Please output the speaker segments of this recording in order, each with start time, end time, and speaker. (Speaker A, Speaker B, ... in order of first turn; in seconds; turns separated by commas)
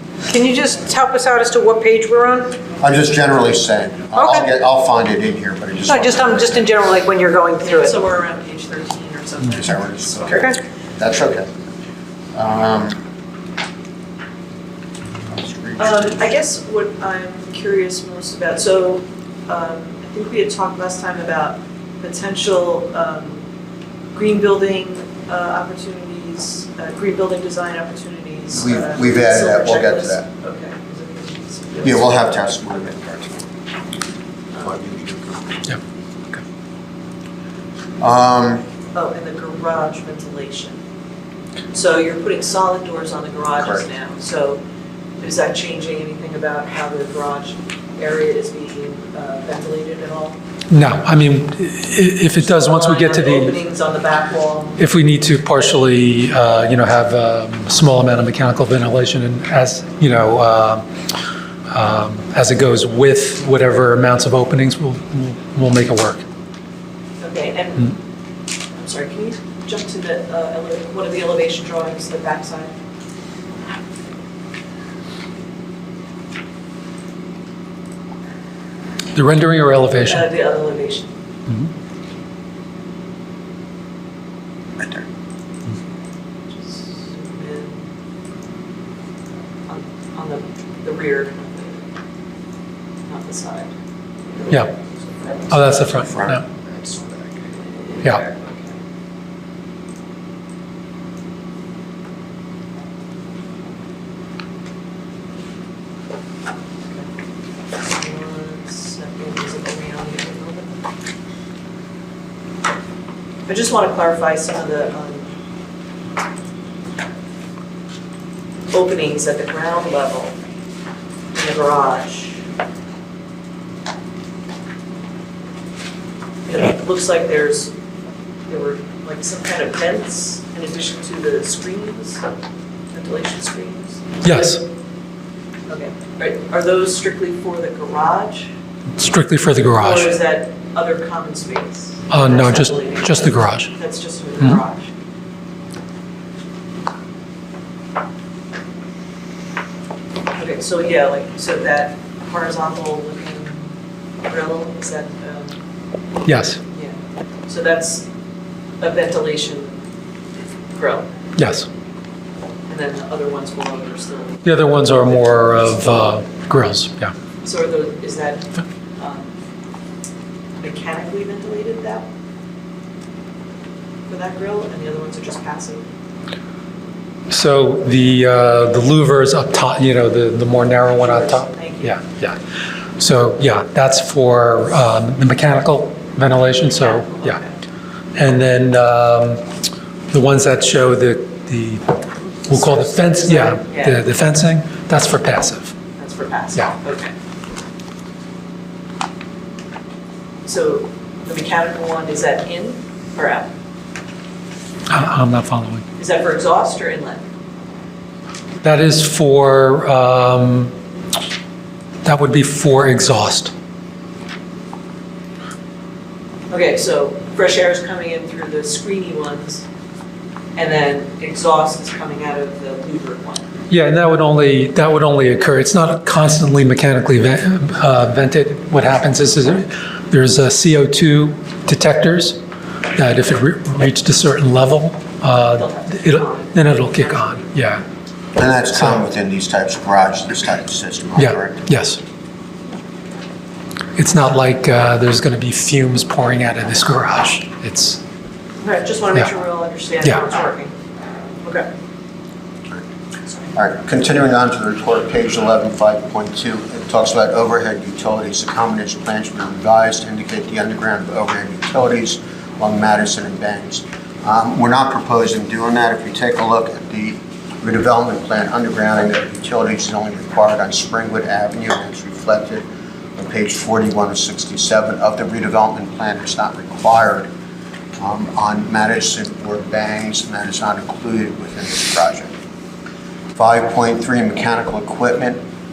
Speaker A: 0.3-2.5, Speaker B: 2.8-6.8, Speaker A: 4.2-4.5, Speaker A: 5.9-8.0, Speaker C: 7.6-10.4, Speaker B: 9.6-11.5, Speaker A: 10.3-10.6, Speaker B: 12.3-13.0, Speaker B: 15.3-16.3, Speaker C: 15.8-23.5, Speaker C: 24.1-32.1, Speaker B: 28.6-30.3, Speaker B: 31.8-33.5, Speaker B: 34.6-35.6, Speaker B: 38.0-38.6, Speaker C: 38.9-40.8, Speaker C: 41.7-44.6, Speaker B: 43.6-43.9, Speaker C: 45.2-50.4, Speaker D: 50.7-53.6, Speaker C: 52.4-54.8, Speaker D: 54.8-60.8, Speaker D: 61.7-66.2, Speaker C: 67.2-68.0, Speaker C: 68.7-72.8, Speaker D: 79.1-80.3, Speaker C: 80.0-81.1, Speaker B: 84.8-85.0, Speaker C: 86.5-87.8, Speaker C: 89.7-91.8, Speaker C: 93.1-93.7, Speaker D: 95.5-96.5, Speaker B: 96.0-97.5, Speaker C: 97.9-98.8, Speaker C: 107.8-110.8, Speaker C: 113.5-115.3, Speaker C: 118.7-120.3, Speaker C: 121.3-122.4, Speaker C: 126.5-127.7, Speaker C: 128.5-132.3, Speaker C: 132.9-134.1, Speaker D: 134.2-134.6, Speaker C: 135.7-138.5, Speaker D: 139.0-140.2, Speaker C: 139.8-144.9, Speaker D: 142.1-143.7, Speaker C: 150.3-153.7, Speaker C: 154.2-155.6, Speaker D: 156.3-156.6, Speaker C: 156.7-158.1, Speaker C: 158.8-159.8, Speaker C: 160.8-161.1, Speaker D: 161.4-161.7, Speaker C: 162.7-165.1, Speaker D: 164.4-167.1, Speaker C: 167.4-169.3, Speaker C: 170.6-172.1, Speaker C: 174.1-175.9, Speaker D: 177.3-182.4, Speaker C: 181.0-182.0, Speaker D: 183.0-187.4, Speaker C: 186.8-187.6, Speaker D: 188.2-189.4, Speaker D: 190.1-195.8, Speaker C: 193.2-194.0, Speaker C: 196.0-197.1, Speaker C: 200.4-203.5, Speaker D: 204.9-205.8, Speaker C: 206.0-207.2, Speaker D: 208.6-210.7, Speaker D: 212.0-213.5, Speaker C: 216.5-219.7, Speaker C: 220.6-223.4, Speaker D: 223.7-232.4, Speaker D: 233.0-237.8, Speaker C: 235.5-237.5, Speaker B: 238.4-241.8, Speaker D: 238.8-239.0, Speaker D: 241.2-242.0, Speaker D: 244.0-248.0, Speaker C: 248.6-250.7, Speaker C: 251.4-251.7, Speaker B: 253.6-272.6, Speaker B: 273.2-277.3, Speaker B: 278.0-282.3, Speaker B: 283.4-285.4